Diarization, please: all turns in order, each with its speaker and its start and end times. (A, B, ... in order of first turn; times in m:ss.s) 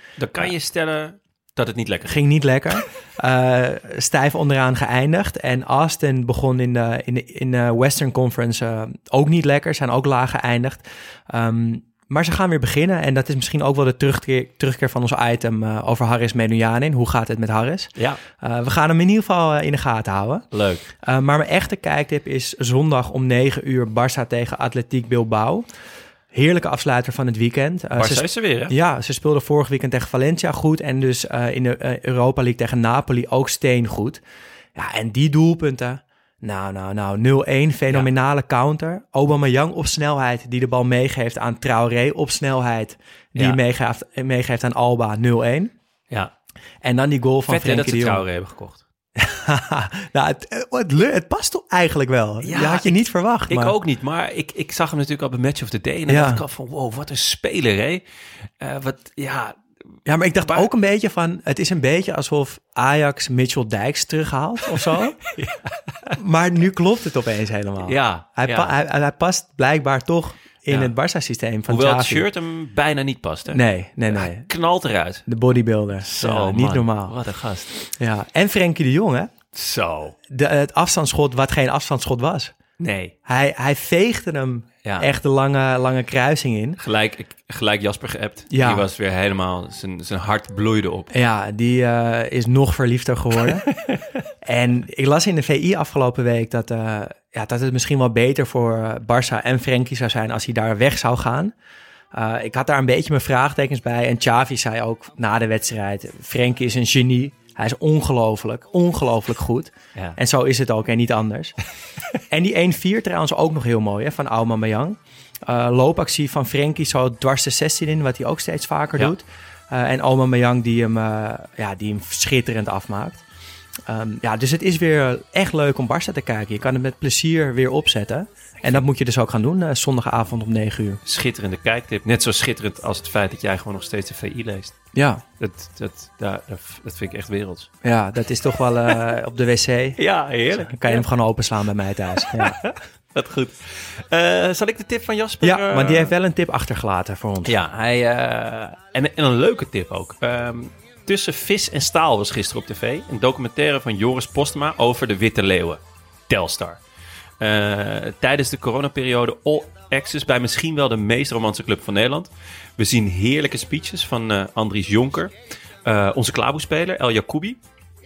0:00.2-0:02.2 A
0:02.0-0:20.4 B
0:18.0-0:18.2 A
0:20.5-0:20.8 A
0:21.0-0:25.6 B
0:26.3-0:34.2 B
0:28.0-0:28.8 A
0:34.8-0:45.7 B
0:43.3-0:43.6 A
0:46.8-0:48.2 B
0:47.5-0:48.8 A
0:49.2-0:53.8 B
0:52.4-0:58.0 A
0:56.1-0:56.4 B
0:58.6-0:59.6 A
1:00.0-1:05.2 B
1:05.3-1:06.1 A
1:06.2-1:12.3 B
1:07.8-1:08.7 A
1:11.7-1:15.2 A
1:13.5-1:14.5 B
1:15.2-1:17.1 B
1:16.0-1:17.8 A
1:18.0-1:19.3 B
1:19.5-1:20.2 A
1:20.3-1:22.5 B
1:22.8-1:23.1 A
1:23.2-1:26.8 B
1:24.8-1:25.1 A
1:26.8-1:31.1 A
1:28.5-1:28.9 B
1:31.1-1:33.6 B
1:34.4-1:41.5 B
1:42.1-1:51.6 B
1:52.3-2:03.2 B
2:03.9-2:11.0 B
2:11.0-2:14.8 A
2:14.9-2:15.2 B
2:15.4-2:17.7 A
2:17.8-2:20.0 B
2:20.0-2:21.0 A
2:20.5-2:22.6 B
2:22.2-2:26.1 A
2:25.4-2:27.6 B
2:27.4-2:36.8 A
2:37.4-2:47.6 A